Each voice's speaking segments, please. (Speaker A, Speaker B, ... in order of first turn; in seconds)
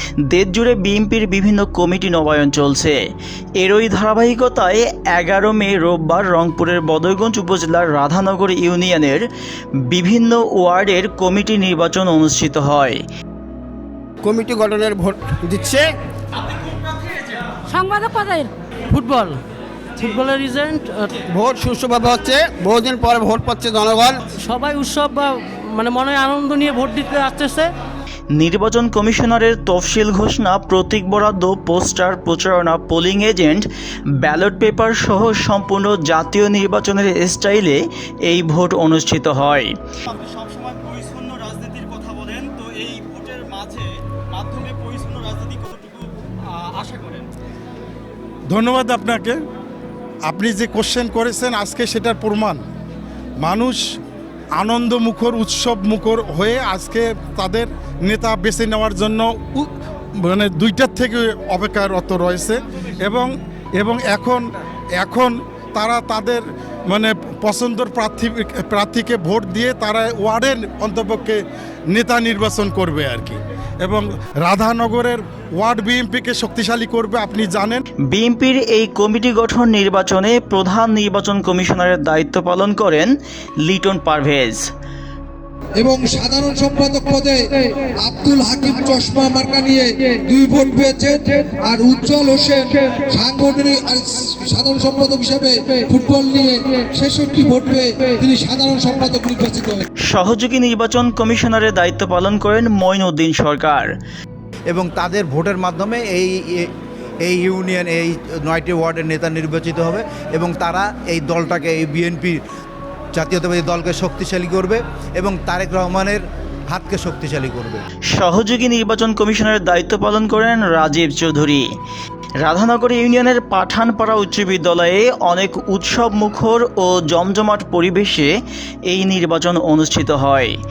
Speaker A: 0.3-3.0, 3.6-9.2, 9.9-13.0, 28.4-33.6, 34.2-39.7, 78.1-83.1, 83.7-84.6, 100.1-103.9, 118.1-121.6, 122.4-128.3, 128.9-130.5
Speaker B: 14.3-15.9, 21.4-24.1
Speaker C: 17.7-19.4, 20.0-21.1, 24.4-27.7
Speaker D: 40.2-43.8, 44.4-46.0, 46.8-47.2
Speaker E: 48.5-49.4, 50.3-52.6, 53.4-53.8, 54.6-59.7, 60.2-64.5, 65.0-71.4, 71.9-77.8
Speaker F: 85.8-87.4, 88.0-99.8
Speaker G: 104.7-106.7, 107.2-112.4, 113.1-117.8